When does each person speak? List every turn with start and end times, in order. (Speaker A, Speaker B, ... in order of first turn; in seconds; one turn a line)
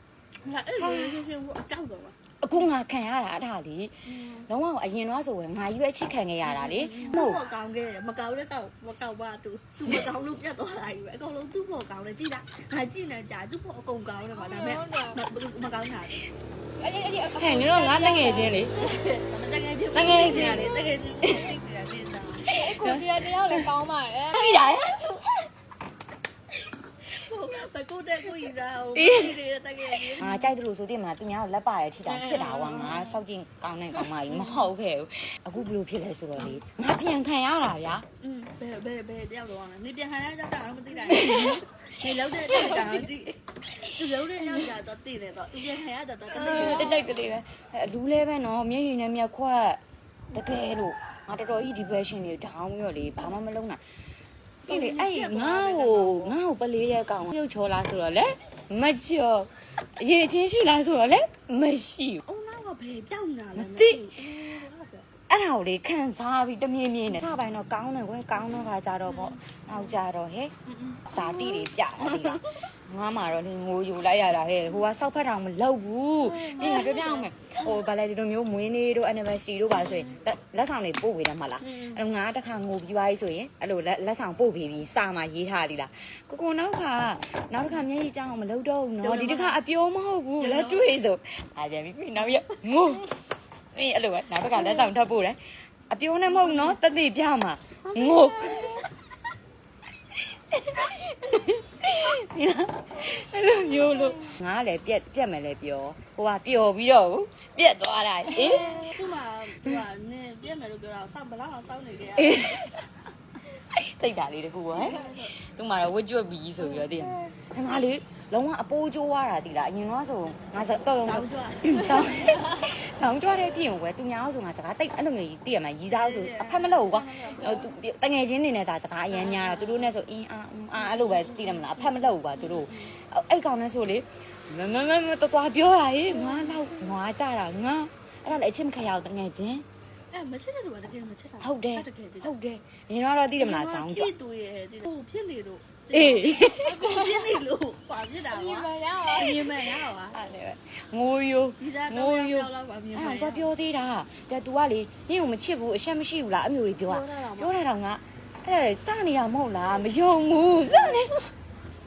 Speaker A: 0.4-2.1
Speaker B: 0.8-1.2
Speaker B: 2.4-7.4
Speaker A: 4.1-4.5
Speaker A: 6.4-16.2
Speaker C: 14.3-15.2
Speaker C: 16.8-18.8
Speaker B: 17.3-18.8
Speaker A: 18.7-22.6
Speaker B: 19.9-21.5
Speaker B: 22.4-23.7
Speaker C: 22.5-25.4
Speaker B: 24.3-25.0
Speaker A: 27.1-30.6
Speaker B: 28.9-29.3
Speaker B: 30.0-38.0
Speaker A: 32.0-33.1
Speaker A: 34.1-34.7
Speaker A: 38.2-47.1
Speaker B: 41.1-41.6
Speaker B: 42.5-42.9
Speaker B: 46.3-49.8
Speaker C: 46.5-47.1
Speaker B: 50.3-53.8
Speaker B: 54.6-62.2
Speaker A: 54.7-56.4
Speaker A: 62.2-65.1
Speaker B: 63.6-64.0
Speaker B: 65.3-70.5
Speaker A: 69.0-70.0
Speaker A: 70.7-72.4
Speaker B: 71.1-93.2
Speaker A: 76.2-77.7
Speaker A: 79.8-80.1
Speaker A: 81.6-82.0
Speaker A: 89.0-89.6
Speaker A: 90.4-90.9
Speaker A: 92.2-92.6
Speaker B: 93.7-98.8
Speaker A: 94.5-94.9
Speaker A: 96.3-96.8
Speaker A: 97.8-98.9
Speaker B: 100.3-109.0
Speaker C: 103.8-104.2
Speaker C: 108.3-108.9
Speaker A: 108.5-112.7
Speaker B: 112.2-112.8
Speaker B: 113.7-139.6
Speaker A: 114.7-115.2
Speaker A: 121.0-122.5
Speaker A: 125.9-127.7
Speaker A: 129.1-129.9
Speaker A: 130.7-132.9
Speaker A: 136.1-136.7
Speaker A: 140.1-142.3
Speaker B: 141.4-144.1
Speaker A: 143.4-150.2
Speaker B: 145.9-146.8
Speaker C: 146.6-147.3
Speaker C: 148.2-149.7
Speaker B: 150.0-161.3
Speaker A: 151.6-153.5
Speaker A: 156.9-157.5